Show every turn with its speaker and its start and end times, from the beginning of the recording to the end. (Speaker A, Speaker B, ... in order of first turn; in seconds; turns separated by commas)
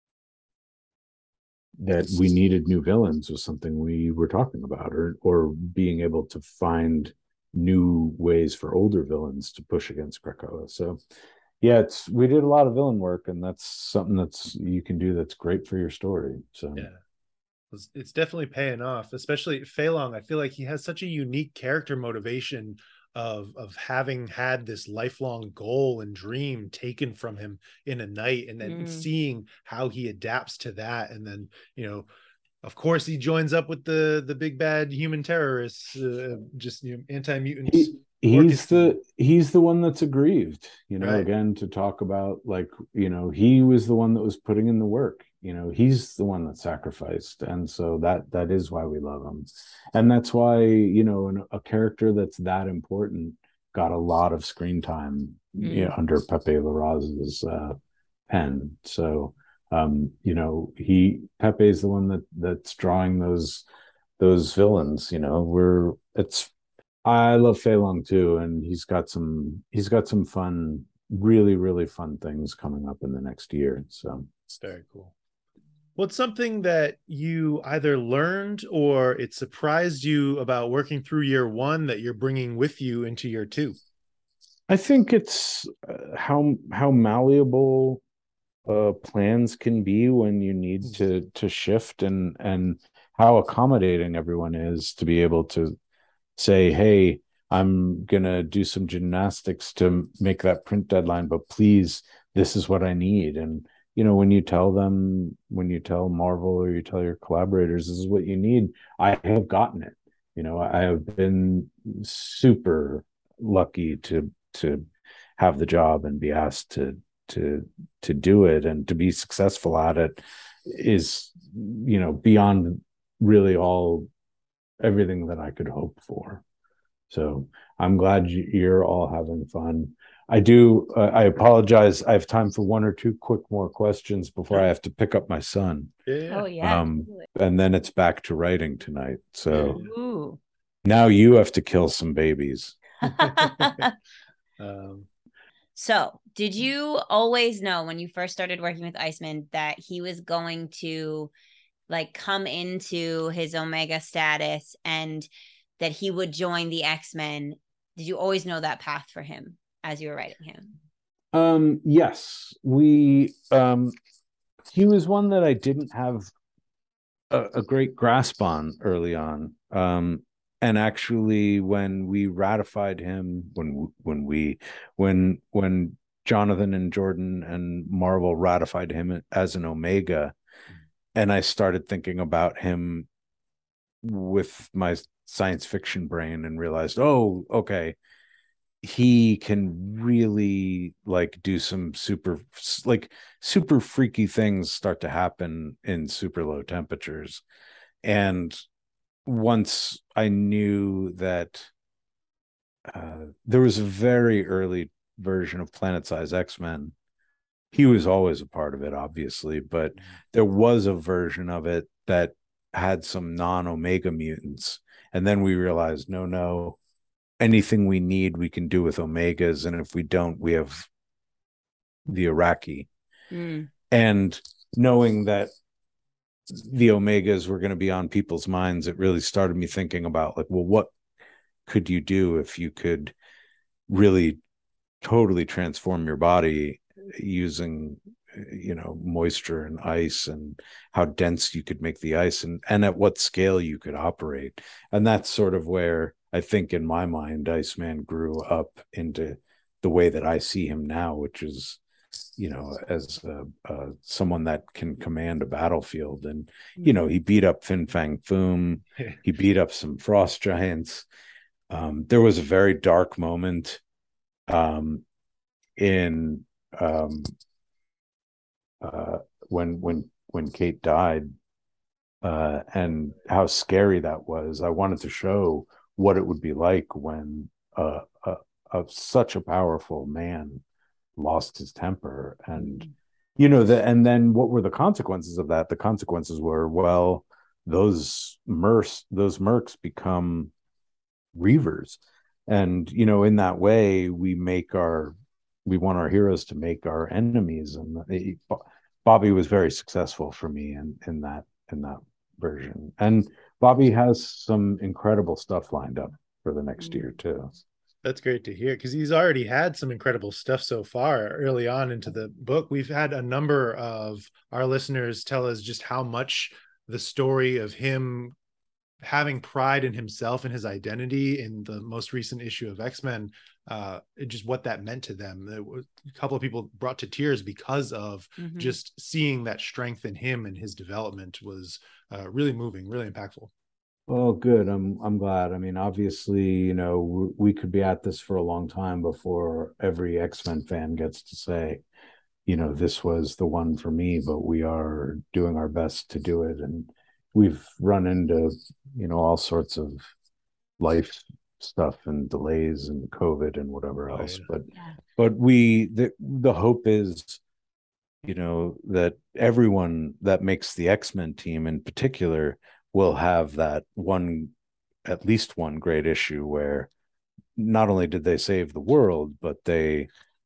Speaker A: 1.8-11.0, Speaker A: 11.6-16.9, Speaker B: 17.7-32.1, Speaker C: 28.6-29.1, Speaker B: 32.6-39.0, Speaker A: 37.7-57.8, Speaker B: 41.0-41.2, Speaker C: 55.6-55.9, Speaker A: 58.3-63.6, Speaker A: 64.2-66.5, Speaker A: 67.0-74.5, Speaker B: 74.6-75.1, Speaker B: 76.0-83.8, Speaker A: 84.7-88.0, Speaker A: 88.7-95.8, Speaker A: 96.3-114.8, Speaker A: 115.4-124.1, Speaker A: 124.8-126.4, Speaker A: 127.1-135.9, Speaker B: 136.1-136.5, Speaker C: 136.3-137.2, Speaker A: 136.6-139.8, Speaker B: 139.5-139.9, Speaker C: 139.7-140.4, Speaker A: 140.8-142.8, Speaker B: 143.0-143.8, Speaker C: 143.2-143.9, Speaker B: 144.6-145.1, Speaker C: 145.8-151.3, Speaker C: 151.9-155.3, Speaker C: 155.8-160.7, Speaker A: 161.3-163.9, Speaker A: 164.7-166.3, Speaker A: 167.3-180.3, Speaker A: 181.1-183.1, Speaker A: 184.0-187.9, Speaker A: 188.8-197.4, Speaker A: 198.0-198.6, Speaker A: 199.2-201.7, Speaker A: 202.8-206.9, Speaker A: 207.7-216.8, Speaker A: 217.4-220.9, Speaker A: 222.1-222.9, Speaker C: 223.3-223.7, Speaker A: 223.9-225.5, Speaker A: 226.5-230.9, Speaker A: 231.7-233.1, Speaker A: 233.9-234.4, Speaker A: 235.0-251.8, Speaker A: 252.3-261.1, Speaker A: 261.7-263.8, Speaker A: 264.5-265.0, Speaker A: 265.8-267.3, Speaker A: 268.8-271.3, Speaker A: 272.2-280.6, Speaker A: 281.1-290.5, Speaker A: 291.3-295.1, Speaker A: 295.6-307.5, Speaker B: 308.0-318.3, Speaker B: 319.0-333.5, Speaker C: 328.4-328.8, Speaker A: 334.1-341.8, Speaker A: 342.4-350.0, Speaker A: 350.8-357.4, Speaker B: 354.1-354.5, Speaker A: 358.2-364.5, Speaker A: 365.0-366.9, Speaker A: 367.6-370.1